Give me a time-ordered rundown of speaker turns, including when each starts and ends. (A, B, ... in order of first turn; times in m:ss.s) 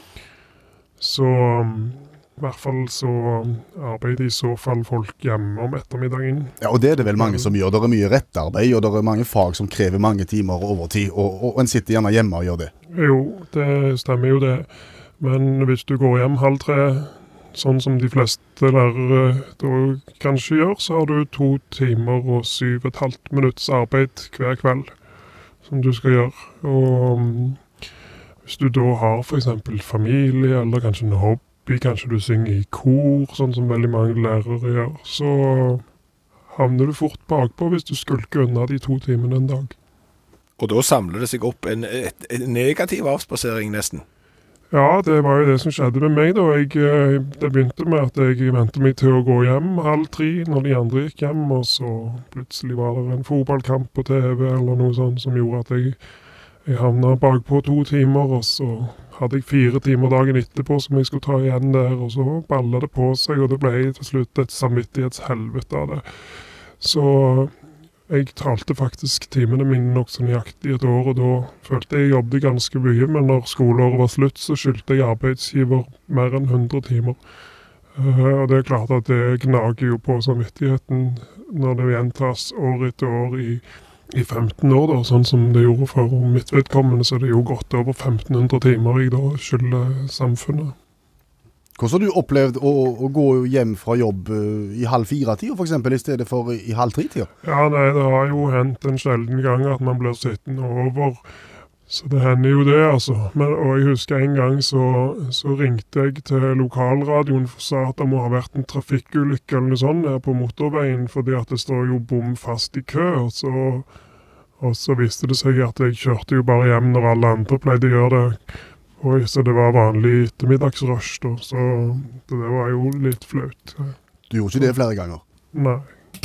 0:01.0-0:07.5 A
0:06.6-0:12.7 B
0:13.0-0:25.0 A
0:25.6-0:27.7 A
0:28.4-0:35.8 A
0:36.5-0:39.8 A
0:40.6-0:44.0 C
0:44.7-0:56.1 A
0:56.6-1:06.1 A
1:06.8-1:17.2 A
1:17.9-1:30.8 A
1:31.8-1:37.3 B
1:37.4-1:41.3 A
1:41.9-1:54.0 A
1:54.6-2:04.0 A
2:04.3-2:05.2 B
2:05.6-2:05.9 A